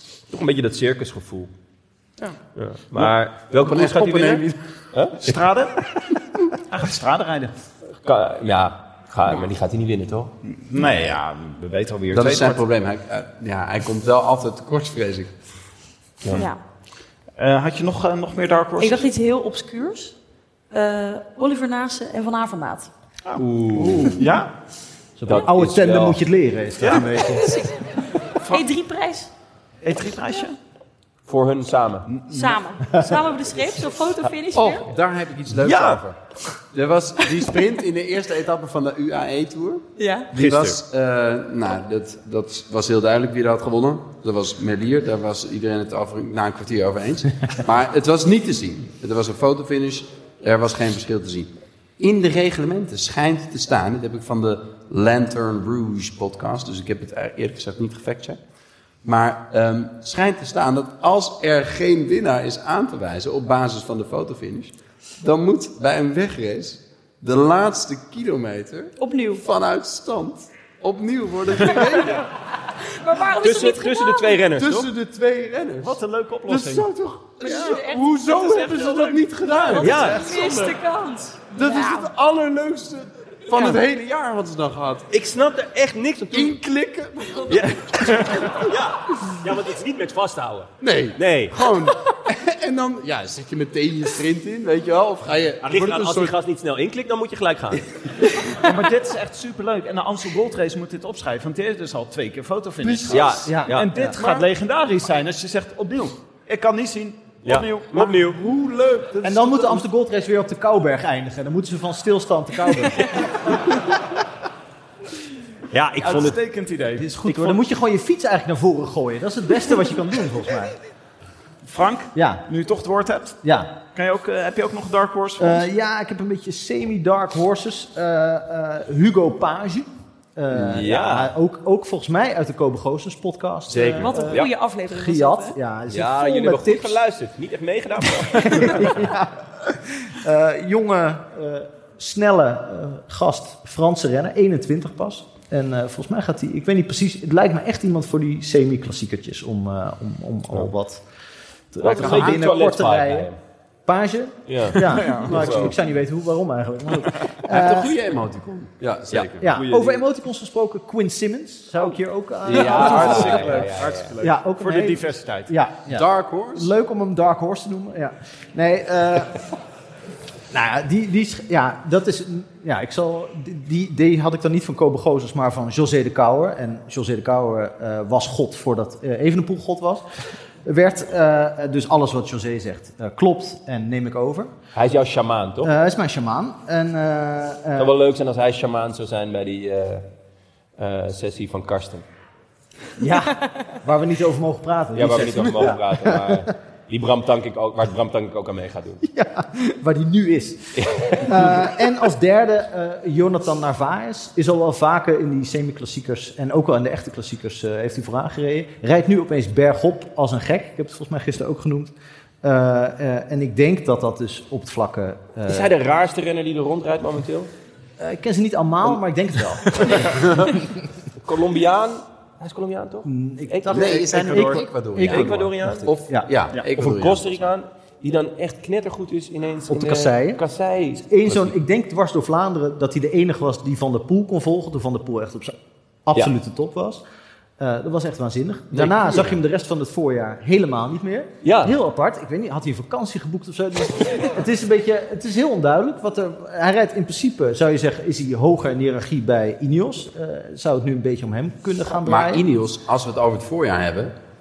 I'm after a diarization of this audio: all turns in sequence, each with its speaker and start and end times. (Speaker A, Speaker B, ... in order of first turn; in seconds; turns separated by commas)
Speaker A: 0.3-1.5, Speaker A: 2.5-5.4, Speaker B: 2.9-4.6, Speaker C: 5.2-5.8, Speaker C: 6.7-7.5, Speaker A: 8.0-10.3, Speaker C: 10.4-12.6, Speaker B: 12.1-15.3, Speaker D: 16.3-16.6, Speaker C: 17.4-19.1, Speaker D: 18.8-20.1, Speaker D: 20.7-22.9, Speaker A: 23.3-24.3, Speaker E: 23.7-24.3, Speaker C: 24.0-24.5, Speaker E: 25.2-27.5, Speaker A: 25.2-26.2, Speaker A: 26.8-27.1, Speaker D: 27.2-29.3, Speaker C: 29.8-30.6, Speaker A: 31.3-32.1, Speaker C: 32.1-32.6, Speaker D: 32.3-34.9, Speaker B: 34.5-36.2, Speaker A: 35.6-36.0, Speaker B: 36.7-58.4, Speaker D: 40.0-40.3, Speaker A: 40.3-40.8, Speaker B: 59.0-72.3, Speaker D: 69.0-69.4, Speaker D: 72.7-74.4, Speaker A: 73.4-74.9, Speaker B: 74.5-80.8, Speaker C: 75.8-76.8, Speaker D: 77.4-82.1, Speaker A: 79.8-80.2, Speaker B: 81.5-85.1, Speaker A: 85.1-86.6, Speaker B: 86.3-88.7, Speaker A: 87.5-91.6, Speaker B: 90.8-96.3, Speaker A: 95.6-98.3, Speaker C: 98.5-109.8, Speaker B: 102.8-103.4, Speaker A: 103.1-104.4, Speaker E: 103.4-104.2, Speaker A: 107.4-108.4, Speaker B: 108.4-109.2, Speaker E: 109.2-113.6, Speaker A: 115.7-116.4, Speaker C: 116.0-117.5, Speaker E: 117.0-120.8, Speaker C: 121.6-125.6, Speaker E: 122.1-122.4, Speaker E: 123.4-123.7, Speaker E: 125.4-137.0, Speaker A: 130.5-131.3, Speaker A: 133.7-134.5, Speaker D: 134.0-135.6, Speaker A: 135.9-139.0, Speaker E: 138.2-151.0, Speaker E: 151.7-153.3, Speaker A: 151.8-153.4, Speaker B: 151.9-152.4, Speaker E: 153.8-157.9, Speaker A: 154.5-155.8, Speaker C: 154.9-155.5, Speaker B: 157.5-159.5, Speaker A: 159.1-160.0, Speaker E: 159.4-163.6, Speaker A: 162.5-164.1, Speaker C: 162.5-165.5, Speaker B: 162.5-163.3, Speaker E: 164.2-169.4, Speaker B: 165.9-166.7, Speaker E: 170.5-180.0, Speaker E: 180.6-184.5, Speaker A: 184.7-185.7, Speaker E: 185.6-187.9, Speaker A: 187.8-190.1, Speaker A: 190.8-192.0, Speaker E: 193.0-196.5, Speaker A: 194.9-199.0, Speaker E: 199.0-215.7, Speaker A: 200.8-201.6, Speaker A: 215.5-217.5, Speaker E: 218.0-220.7, Speaker A: 221.2-223.9, Speaker E: 223.0-226.3, Speaker B: 223.7-227.4, Speaker C: 224.1-224.6, Speaker A: 225.0-225.9, Speaker A: 226.7-231.6, Speaker E: 229.7-230.4, Speaker E: 231.0-237.0, Speaker E: 237.6-252.4, Speaker B: 238.7-239.3, Speaker A: 241.4-241.8, Speaker B: 252.0-254.1